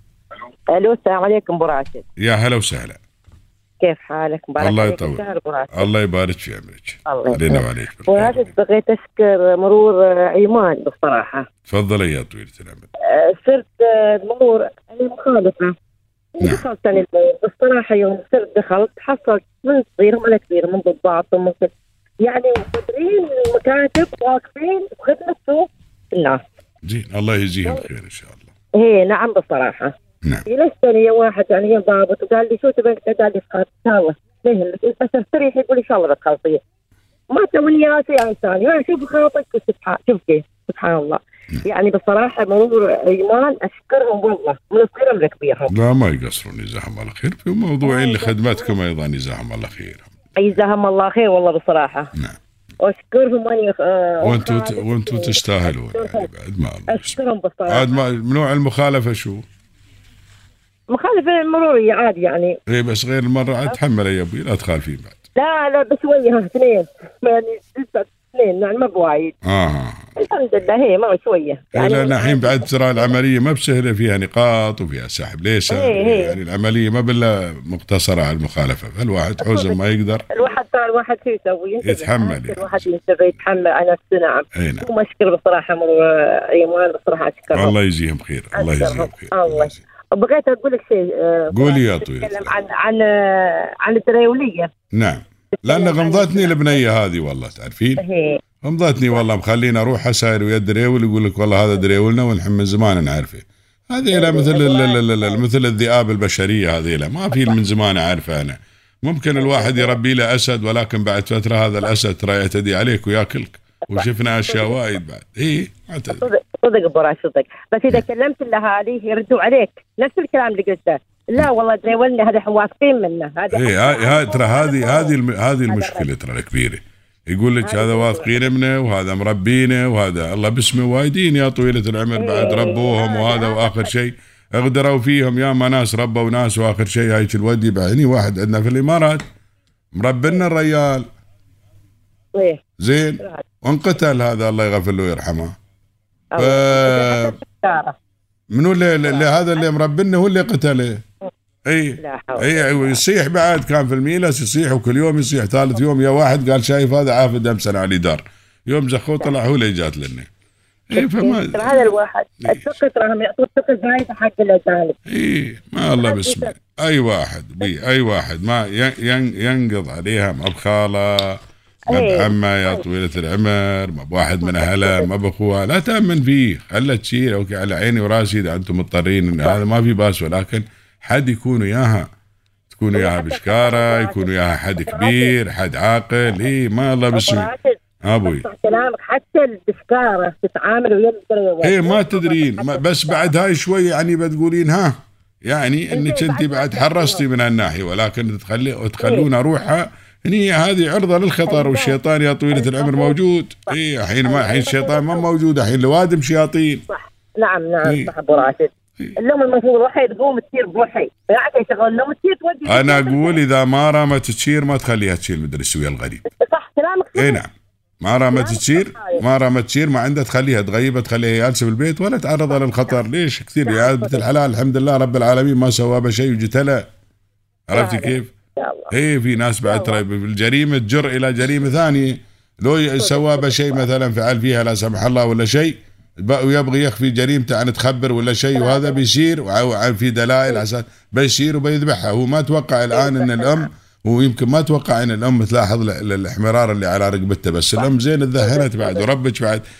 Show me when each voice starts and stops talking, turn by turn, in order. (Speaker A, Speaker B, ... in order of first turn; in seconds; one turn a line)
Speaker A: 0.7-2.0
Speaker B: 2.2-3.0
Speaker A: 3.8-5.9
Speaker B: 4.6-5.2
Speaker B: 5.7-8.4
Speaker A: 7.1-11.5
Speaker B: 11.7-12.9
Speaker A: 13.0-15.8
Speaker A: 16.4-26.4
Speaker B: 26.8-28.5
Speaker A: 28.8-29.9
Speaker A: 30.5-36.6
Speaker A: 37.3-45.7
Speaker B: 45.7-50.1
Speaker A: 47.8-48.8
Speaker A: 50.4-52.1
Speaker A: 52.8-56.3
Speaker B: 54.2-57.2
Speaker A: 56.9-58.0
Speaker B: 57.7-59.4
Speaker A: 60.9-62.6
Speaker B: 62.7-65.2
Speaker A: 65.4-69.3
Speaker B: 69.4-70.2
Speaker A: 70.2-73.2
Speaker B: 71.7-80.3
Speaker A: 75.7-76.4
Speaker A: 79.4-79.8
Speaker A: 80.3-87.8
Speaker B: 81.8-82.8
Speaker B: 84.5-84.9
Speaker B: 87.5-89.8
Speaker A: 88.5-94.7
Speaker B: 91.5-92.6
Speaker B: 94.9-98.0
Speaker A: 95.6-96.8
Speaker A: 98.0-98.4
Speaker B: 98.6-116.3
Speaker A: 104.1-105.4
Speaker A: 109.3-110.0
Speaker A: 113.9-115.0
Speaker A: 116.1-125.2
Speaker B: 123.5-139.2
Speaker A: 125.7-126.1
Speaker A: 127.6-128.4
Speaker A: 132.2-133.9
Speaker B: 139.9-141.1
Speaker A: 142.3-142.6
Speaker B: 142.8-145.5
Speaker A: 146.3-147.9
Speaker B: 146.4-147.3
Speaker B: 148.5-151.0
Speaker A: 149.0-149.7
Speaker B: 151.7-160.3
Speaker A: 152.0-153.0
Speaker B: 160.9-161.9
Speaker A: 161.0-165.0
Speaker B: 162.4-162.8
Speaker B: 165.1-171.4
Speaker A: 166.0-166.5
Speaker A: 171.9-172.8
Speaker B: 171.9-182.1
Speaker A: 174.4-175.1
Speaker B: 182.7-187.5
Speaker A: 182.9-185.4
Speaker A: 187.1-193.3
Speaker B: 188.1-188.4
Speaker B: 191.6-194.9
Speaker B: 195.5-206.9
Speaker A: 195.9-197.3
Speaker A: 199.0-199.3
Speaker A: 201.5-202.0
Speaker A: 202.5-205.3
Speaker A: 206.9-213.4
Speaker B: 207.8-208.1
Speaker B: 212.7-216.2
Speaker A: 216.3-217.4
Speaker B: 217.2-217.5
Speaker B: 218.0-226.8
Speaker A: 218.3-219.2
Speaker A: 223.7-224.3
Speaker B: 227.7-228.3
Speaker A: 227.7-228.9
Speaker B: 228.9-249.6
Speaker A: 229.7-230.0
Speaker A: 233.0-233.9
Speaker A: 238.5-239.0
Speaker A: 242.9-243.7
Speaker A: 247.8-249.1